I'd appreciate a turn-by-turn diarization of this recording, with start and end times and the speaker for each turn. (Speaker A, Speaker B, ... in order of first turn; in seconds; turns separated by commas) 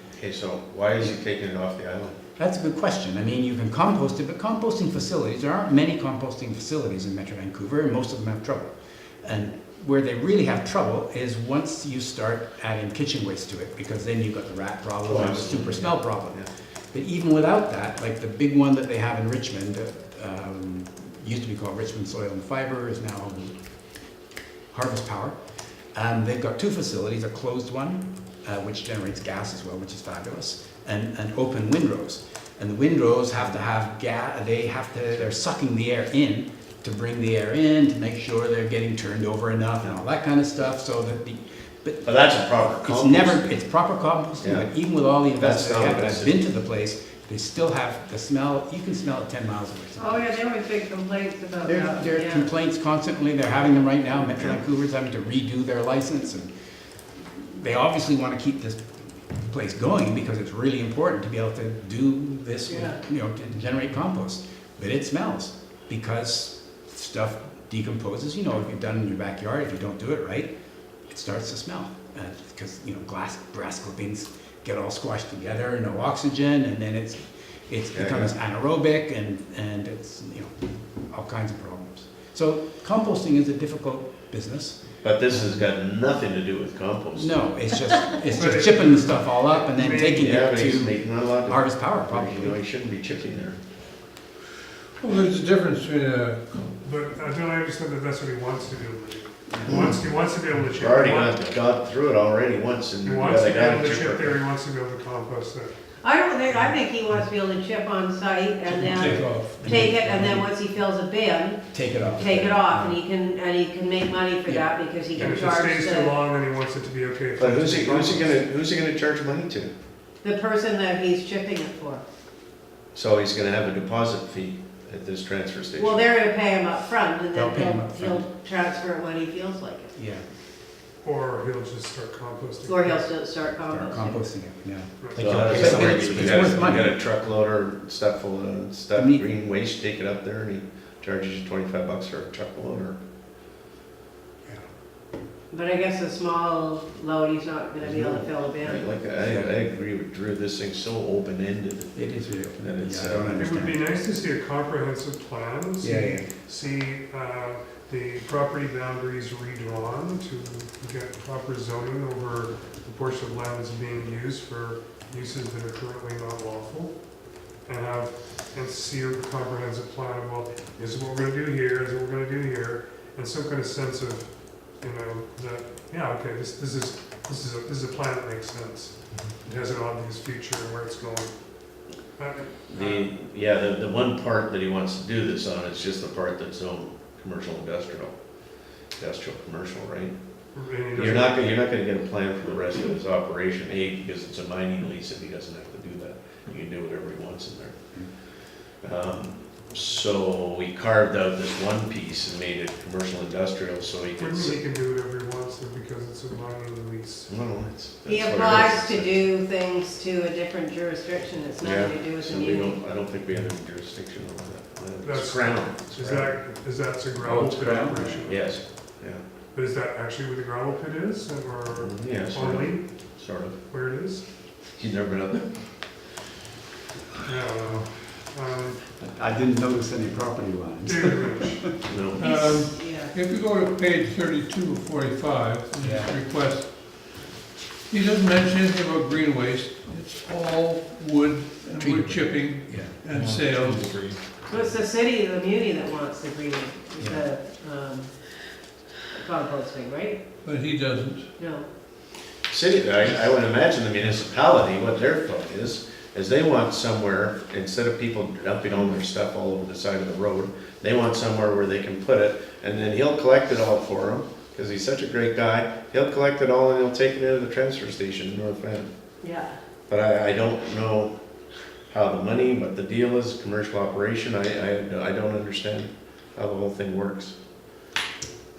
Speaker A: 0.2-2.2, Speaker B: 2.4-8.7, Speaker B: 9.2-23.6, Speaker A: 15.0-16.5, Speaker B: 24.7-25.4, Speaker B: 25.9-50.2, Speaker A: 42.0-43.5, Speaker A: 44.4-44.7, Speaker A: 45.3-46.3, Speaker C: 50.0-52.5, Speaker B: 51.6-56.5, Speaker A: 54.3-54.6, Speaker B: 57.2-70.5, Speaker C: 62.7-63.0, Speaker B: 71.1-80.5, Speaker A: 77.9-78.3, Speaker B: 81.1-85.5, Speaker A: 85.0-87.4, Speaker B: 87.2-92.6, Speaker D: 88.3-90.2, Speaker A: 90.2-93.6, Speaker E: 95.0-96.7, Speaker D: 96.8-101.4, Speaker B: 99.5-99.9, Speaker A: 100.8-104.4, Speaker D: 103.0-105.7, Speaker C: 106.0-116.2, Speaker B: 108.7-110.5, Speaker E: 109.0-109.5, Speaker B: 111.7-113.0, Speaker B: 114.5-115.5, Speaker D: 115.2-118.4, Speaker A: 117.4-119.7, Speaker C: 120.2-122.0, Speaker A: 122.9-126.1, Speaker C: 125.8-129.9, Speaker B: 127.3-128.2, Speaker B: 129.9-130.2, Speaker D: 131.0-133.0, Speaker C: 132.7-134.2, Speaker B: 133.7-136.9, Speaker D: 135.0-135.4, Speaker A: 135.1-143.0, Speaker C: 135.6-136.1, Speaker B: 138.9-139.2, Speaker C: 145.5-148.8, Speaker A: 147.8-151.9, Speaker B: 151.9-153.8, Speaker A: 152.6-153.4, Speaker D: 153.3-166.9, Speaker B: 155.8-156.3, Speaker D: 167.6-181.3, Speaker D: 182.2-183.0, Speaker A: 182.7-188.1, Speaker A: 189.0-190.1, Speaker D: 190.5-191.4, Speaker A: 190.9-197.8, Speaker A: 198.8-204.6, Speaker D: 204.2-207.3, Speaker A: 207.3-209.2, Speaker C: 208.0-212.8, Speaker A: 211.6-216.3, Speaker D: 215.0-218.5, Speaker B: 217.2-218.3, Speaker A: 218.2-219.2, Speaker D: 219.5-222.9, Speaker A: 221.7-223.6, Speaker D: 223.7-224.2, Speaker A: 224.8-225.6, Speaker D: 227.2-228.8, Speaker B: 228.9-231.7, Speaker D: 230.8-231.7, Speaker A: 231.9-232.2, Speaker E: 232.2-237.2, Speaker C: 232.2-233.1, Speaker B: 235.8-236.1, Speaker E: 237.9-243.9, Speaker B: 241.8-242.9, Speaker C: 244.4-248.3, Speaker B: 247.0-247.2, Speaker C: 249.1-250.2, Speaker E: 250.4-251.3, Speaker C: 251.4-251.7, Speaker A: 252.5-268.9, Speaker C: 269.2-269.6, Speaker A: 269.9-271.1, Speaker A: 271.9-277.3